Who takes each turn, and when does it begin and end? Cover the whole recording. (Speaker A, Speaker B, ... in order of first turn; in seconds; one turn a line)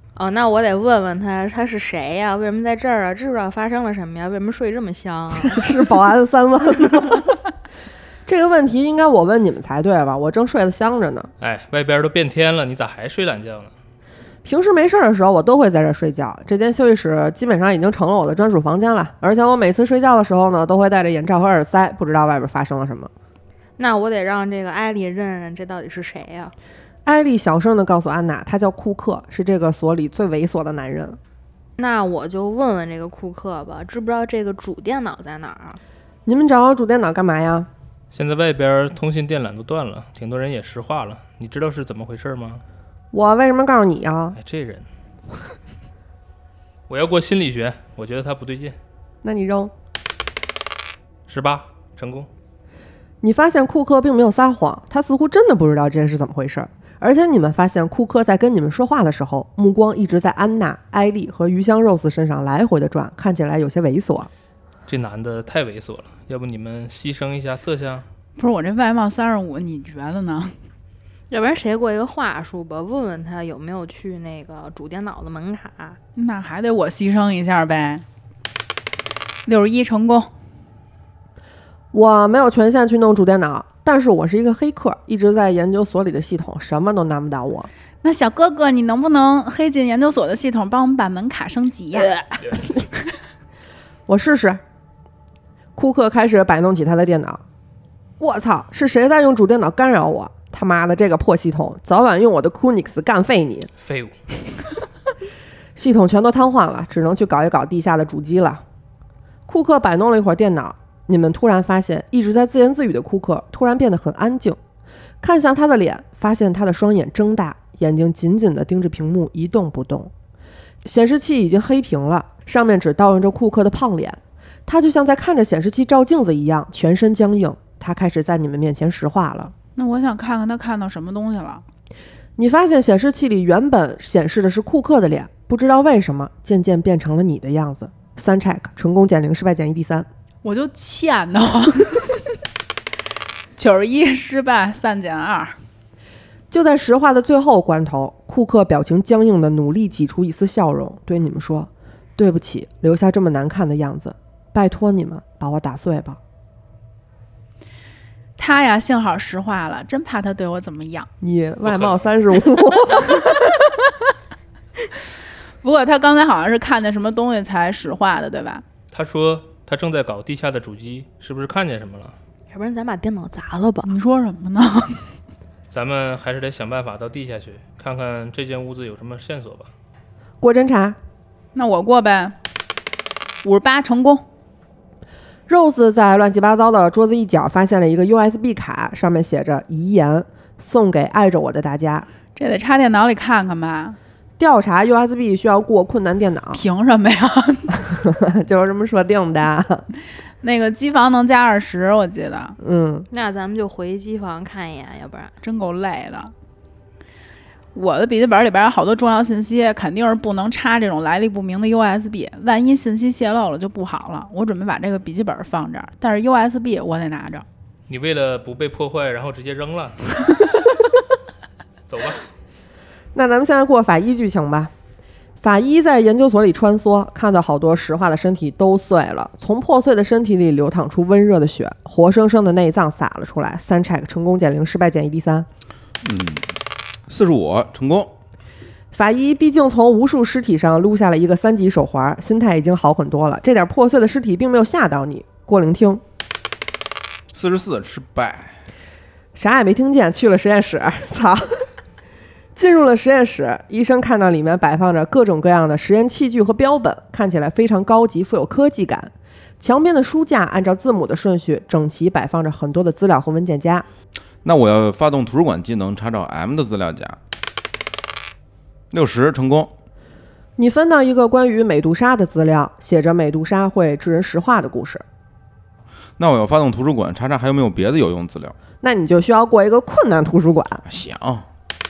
Speaker A: 0.2-5.7
Speaker B: 5.4-7.4
Speaker B: 8.2-11.3
Speaker C: 11.4-13.7
Speaker B: 14.4-23.1
Speaker A: 23.8-26.5
Speaker B: 27.1-31.2
Speaker A: 31.8-35.8
Speaker B: 36.2-37.7
Speaker C: 38.1-42.6
Speaker B: 43.1-44.4
Speaker C: 44.4-44.9
Speaker C: 46.9-48.8
Speaker B: 49.2-49.7
Speaker C: 51.3-52.3
Speaker B: 53.2-64.3
Speaker C: 64.9-68.1
Speaker D: 68.4-70.6
Speaker A: 71.3-76.0
Speaker D: 76.2-78.0
Speaker D: 79.5-80.3
Speaker B: 81.9-87.7
Speaker D: 88.0-92.2
Speaker B: 94.1-94.6
Speaker B: 95.8-97.4
Speaker B: 98.2-103.7
Speaker C: 103.8-104.2
Speaker B: 105.8-108.6
Speaker B: 109.5-114.6
Speaker B: 115.2-120.1
Speaker B: 120.8-129.5
Speaker D: 129.8-131.6
Speaker B: 132.4-140.1
Speaker D: 140.4-142.3
Speaker D: 143.6-145.6
Speaker B: 146.5-156.2
Speaker D: 158.4-161.1
Speaker B: 161.2-163.2
Speaker C: 161.6-162.1
Speaker D: 165.6-168.6
Speaker C: 168.9-172.1
Speaker A: 172.5-173.9
Speaker D: 173.8-175.1
Speaker C: 175.7-179.7
Speaker B: 180.4-181.0
Speaker D: 181.6-182.3
Speaker D: 183.4-184.2
Speaker B: 185.5-192.1
Speaker D: 192.3-194.0
Speaker B: 194.4-196.6
Speaker D: 196.5-197.8
Speaker B: 197.9-199.9
Speaker D: 200.4-202.6
Speaker B: 202.6-203.1
Speaker A: 203.1-205.3
Speaker D: 205.4-206.3
Speaker D: 207.7-217.4
Speaker C: 217.9-220.4
Speaker C: 221.9-222.2
Speaker B: 223.1-224.7
Speaker B: 225.4-235.5
Speaker E: 236.0-236.5
Speaker E: 237.1-238.1
Speaker B: 238.9-246.0
Speaker E: 247.3-248.6
Speaker B: 249.3-251.7
Speaker B: 252.6-263.9
Speaker E: 264.4-267.2
Speaker E: 268.9-269.7
Speaker B: 270.6-275.0
Speaker E: 276.2-278.6
Speaker B: 278.8-280.8
Speaker E: 280.9-281.4